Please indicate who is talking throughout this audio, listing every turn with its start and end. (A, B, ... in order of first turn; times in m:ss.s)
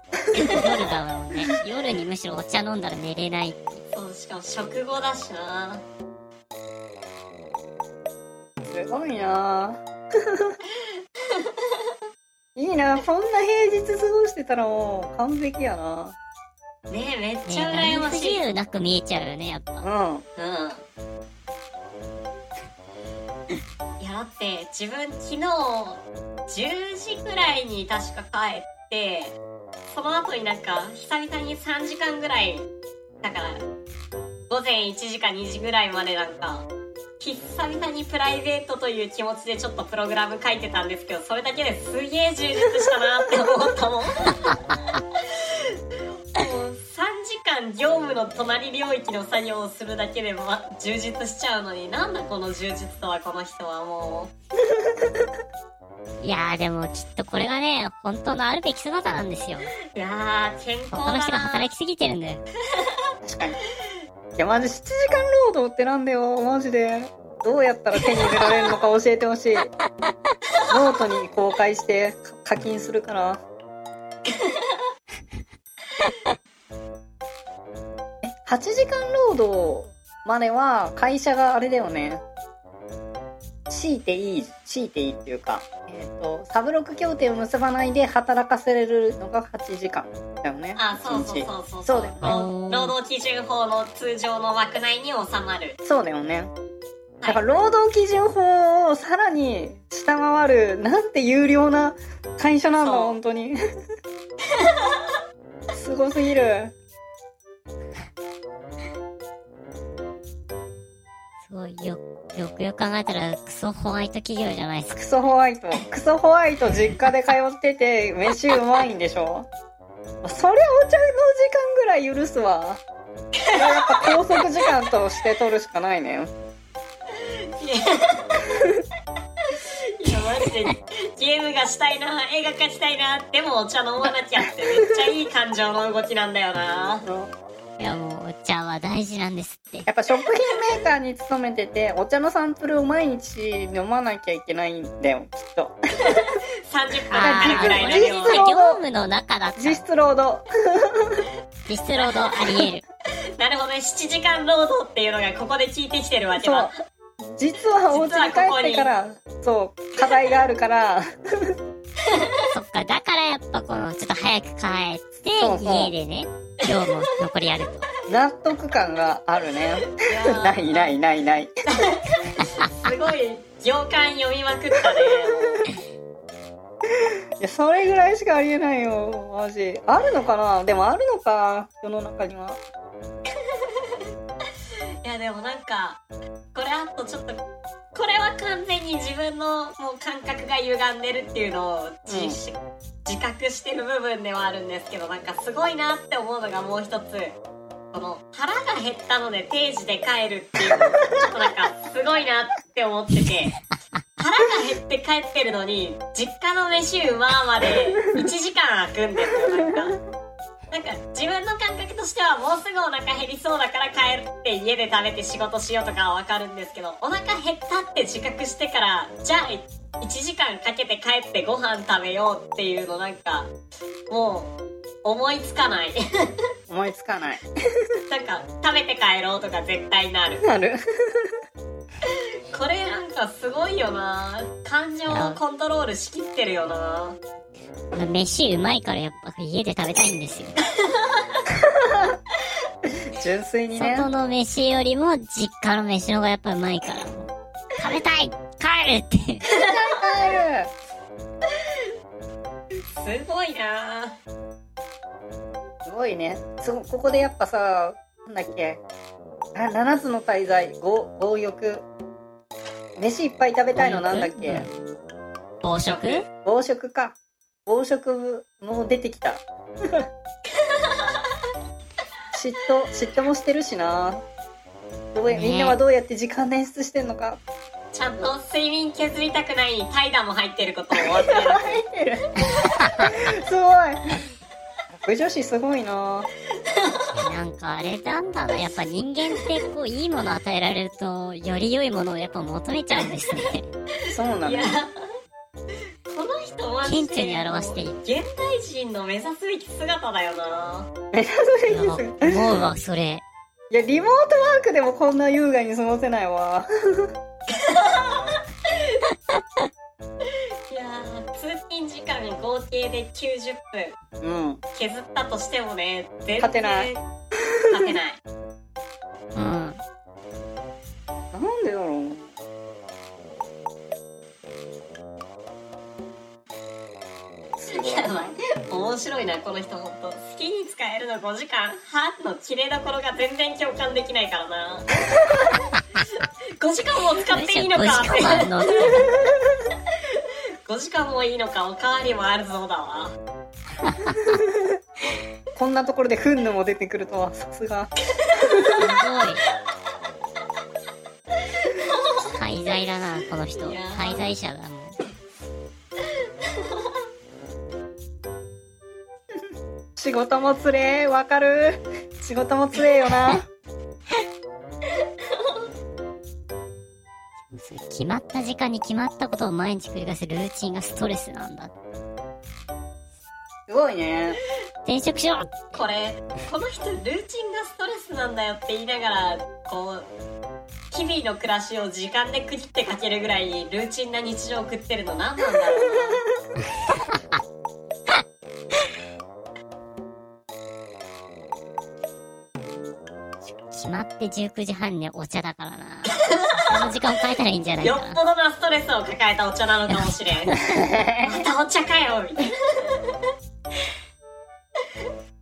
0:00.3-0:03.8 A
0:03.9-0:05.8 B
0:08.6-0:10.6 C
0:12.6-0:16.2 C
0:16.9-0:18.4 B
0:17.4-0:19.9 A
0:19.8-0:20.2 C
0:20.4-0:20.8 B
0:24.0-0:29.4 B
0:29.9-0:32.6 B
0:33.2-0:33.6 B
0:34.5-0:36.7 B
0:37.2-0:44.6 B
0:46.3-0:54.3 B
0:56.2-0:59.7 A
0:59.9-1:01.7 B
1:00.9-1:02.4 A
1:03.2-1:03.6 C
1:04.4-1:09.7 C
1:10.7-1:13.4 C
1:14.3-1:14.6 B
1:18.2-1:22.2 C
1:23.7-1:32.4 C
1:30.8-1:35.8 B
1:32.2-1:32.9 A
1:35.8-1:36.5 C
1:37.2-1:43.6 C
1:42.8-1:43.2 B
1:45.7-1:46.7 C
1:51.4-1:55.0 A
1:54.9-1:59.5 C
2:00.2-2:02.8 C
2:03.5-2:06.3 C
2:03.5-2:04.1 B
2:07.6-2:08.4 B
2:10.0-2:17.0 B
2:17.0-2:17.3 C
2:17.8-2:19.9 A
2:19.8-2:25.8 C
2:26.1-2:28.4 B
2:27.1-2:29.8 A
2:27.2-2:28.8 C
2:29.6-2:31.2 C
2:31.7-2:32.8 A
2:31.9-2:32.6 B
2:33.4-2:36.8 B
2:36.4-2:36.7 C
2:37.3-2:41.5 C
2:37.9-2:38.9 B
2:40.0-2:40.4 B
2:42.5-2:47.9 A
2:45.4-2:45.9 C
2:48.1-2:51.5 C
2:49.9-2:50.9 B
2:51.8-2:55.7 B
2:57.4-3:02.6 C
3:05.0-3:06.0 B
3:06.5-3:07.4 B
3:07.9-3:17.4 B
3:12.1-3:12.4 C
3:17.9-3:23.6 B
3:24.2-3:30.0 B
3:30.7-3:43.5 B
3:44.1-3:44.5 B
3:45.0-3:46.0 B
3:46.7-3:47.4 C
3:48.1-3:50.4 B
3:50.4-3:51.3 C
3:52.5-3:57.2 B
3:55.1-3:55.4 A
3:57.9-4:00.5 A
4:01.6-4:02.1 C
4:03.1-4:04.1 C
4:03.7-4:09.4 A
4:09.5-4:10.7 C
4:13.0-4:14.1 B
4:15.8-4:18.8 C
4:19.5-4:21.8 C
4:23.0-4:24.6 C
4:23.7-4:24.8 A
4:25.6-4:26.3 A
4:25.8-4:26.2 B
4:26.4-4:29.4 C
4:32.3-4:34.2 C
4:35.1-4:37.4 C
4:35.3-4:35.8 A
4:37.9-4:41.8 B
4:41.0-4:42.2 C
4:43.0-4:44.2 C
4:45.0-4:46.3 C
4:47.2-4:53.7 A
4:53.0-4:53.3 B
4:54.1-4:54.8 C
4:54.4-4:54.9 B
4:56.1-5:00.9 B
4:56.8-4:58.0 A
5:01.1-5:02.5 C
5:01.7-5:03.2 A
5:03.7-5:07.1 C
5:07.5-5:08.4 B
5:10.7-5:14.0 B
5:14.2-5:14.6 C
5:14.7-5:17.0 B
5:16.4-5:16.9 C
5:17.7-5:18.2 B
5:19.3-5:19.8 A
5:21.3-5:22.3 C
5:27.6-5:28.3 C
5:27.7-5:34.9 B
5:36.6-5:39.1 B
5:37.2-5:39.1 A
5:40.6-5:43.1 B
5:43.8-5:44.2 A
5:45.5-5:47.9 C
5:48.2-5:48.8 B
5:48.8-5:49.4 A
5:51.6-5:52.2 B
5:52.2-5:55.0 A
5:53.5-5:54.3 B
6:00.0-6:03.4 C
6:07.5-6:11.7 A
6:13.7-6:14.4 C
6:14.8-6:15.6 A
6:15.7-6:20.1 B
6:20.9-6:26.2 B
6:33.4-6:38.2 A
6:36.3-6:36.7 B
6:37.8-6:40.6 B
6:39.9-6:40.8 A
6:40.8-6:41.4 C
6:41.2-6:42.5 B